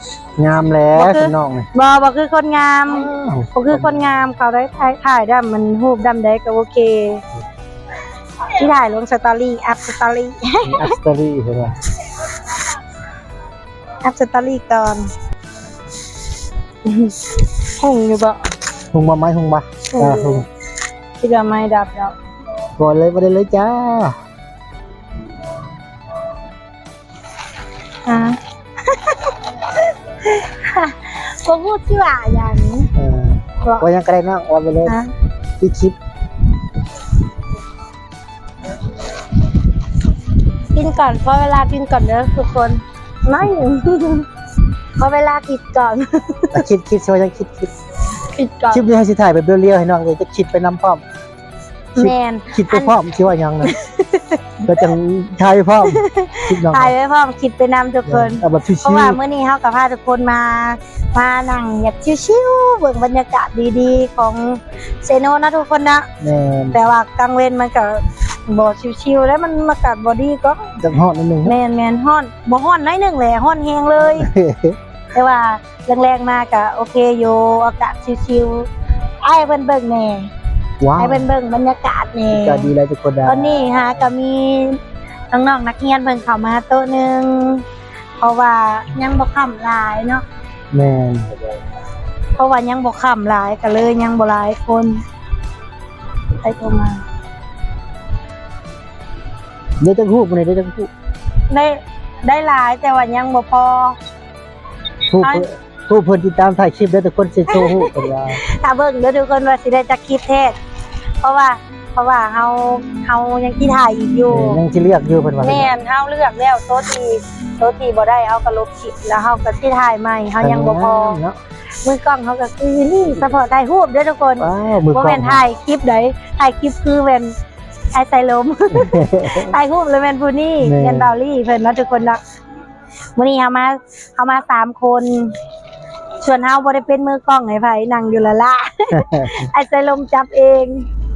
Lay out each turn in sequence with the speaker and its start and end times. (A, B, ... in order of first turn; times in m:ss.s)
0:00.4-0:01.7 A
0:00.9-0:07.2 B
0:02.9-0:04.1 A
0:08.5-0:11.0 B
0:10.6-0:11.8 A
0:14.0-0:15.1 B
0:16.8-0:18.4 B
0:18.9-0:20.5 A
0:19.9-0:20.5 B
0:21.2-0:22.2 B
0:22.8-0:24.2 A
0:28.1-0:32.9 B
0:33.0-0:35.0 A
0:33.6-0:33.9 B
0:35.6-0:36.0 A
0:40.7-0:44.3 B
0:45.0-0:46.6 B
0:46.5-0:47.7 A
0:48.2-0:48.8 B
0:48.7-0:51.0 A
0:52.0-0:53.0 B
0:52.0-0:53.8 A
0:53.6-0:54.9 B
0:54.6-0:57.0 A
0:55.8-1:06.1 B
0:58.1-0:59.2 A
1:06.2-1:06.9 A
1:06.7-1:10.8 B
1:10.8-1:11.6 A
1:11.4-1:14.3 B
1:14.0-1:14.8 A
1:15.1-1:18.7 B
1:19.2-1:20.3 B
1:20.8-1:21.3 A
1:21.0-1:22.7 B
1:22.3-1:24.1 A
1:23.2-1:24.8 B
1:25.3-1:27.6 B
1:28.2-1:30.2 B
1:30.7-1:31.4 A
1:32.4-1:35.0 B
1:36.4-1:37.0 B
1:39.8-1:40.9 A
1:41.5-1:44.0 B
1:45.1-1:48.4 A
1:45.2-1:45.5 B
1:47.5-1:50.6 B
1:51.2-1:54.6 B
1:54.3-1:55.7 A
1:55.4-2:01.2 B
2:00.4-2:01.4 A
2:01.8-2:07.4 B
2:04.4-2:05.4 A
2:07.9-2:12.2 B
2:08.7-2:09.6 A
2:10.6-2:11.1 A
2:13.2-2:15.4 B
2:16.2-2:20.9 B
2:18.9-2:19.5 A